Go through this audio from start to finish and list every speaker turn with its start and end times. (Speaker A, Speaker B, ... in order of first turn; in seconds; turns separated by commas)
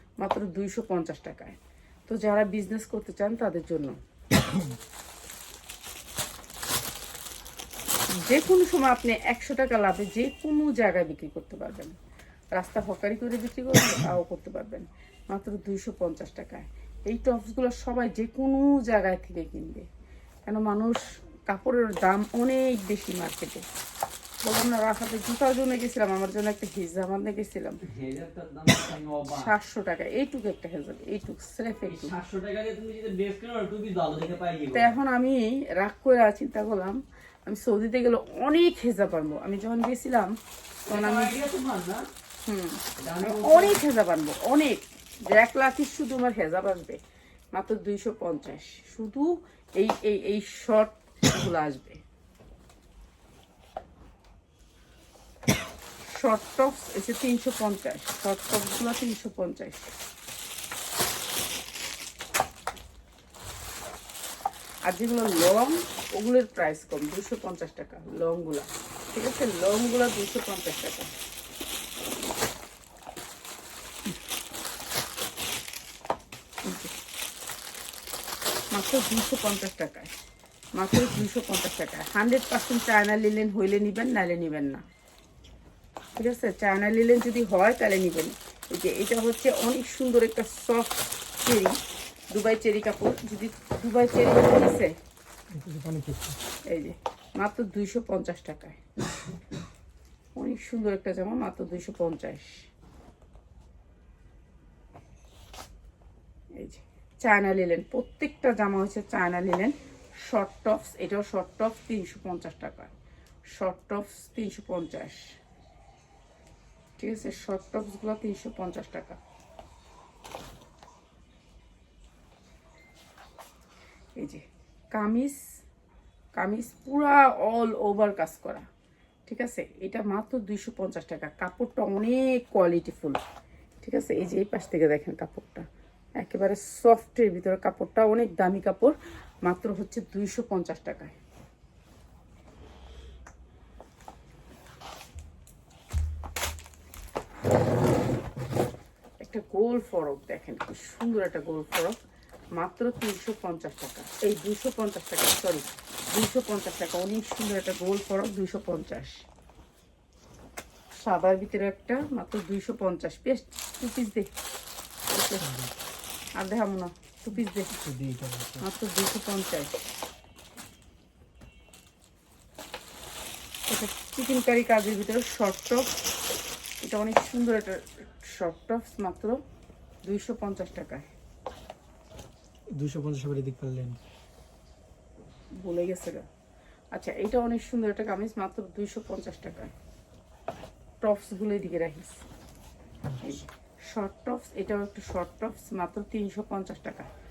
Speaker A: 0.2-4.0, Speaker A: 8.1-11.9, Speaker A: 12.5-19.9, Speaker A: 20.4-23.6, Speaker A: 24.4-27.8, Speaker B: 27.9-29.5, Speaker A: 29.3-32.2, Speaker B: 31.9-34.9, Speaker A: 34.7-40.3, Speaker B: 40.9-42.1, Speaker A: 40.9-41.5, Speaker A: 42.5-47.0, Speaker B: 43.0-43.8, Speaker A: 47.5-52.0, Speaker A: 56.1-59.9, Speaker A: 64.8-71.1, Speaker A: 76.6-76.9, Speaker A: 78.7-80.1, Speaker A: 80.8-84.8, Speaker A: 86.2-91.8, Speaker A: 92.3-95.0, Speaker C: 95.5-96.4, Speaker A: 96.7-98.8, Speaker A: 100.4-102.6, Speaker A: 106.6-112.9, Speaker A: 113.6-115.4, Speaker A: 117.0-119.2, Speaker A: 124.2-124.4, Speaker A: 124.9-125.4, Speaker A: 126.4-128.7, Speaker A: 129.3-133.2, Speaker A: 133.8-135.7, Speaker A: 136.2-141.2, Speaker A: 149.2-152.0, Speaker A: 152.6-159.2, Speaker A: 161.0-164.3, Speaker A: 165.1-165.4, Speaker C: 165.4-165.7, Speaker A: 166.4-167.8, Speaker C: 167.8-168.6, Speaker A: 168.6-169.8, Speaker A: 173.7-175.9, Speaker A: 176.8-179.4, Speaker A: 180.1-181.1, Speaker C: 182.7-184.0, Speaker A: 185.6-186.2, Speaker A: 186.9-189.7, Speaker A: 191.0-192.2, Speaker C: 193.1-193.3, Speaker A: 193.2-197.1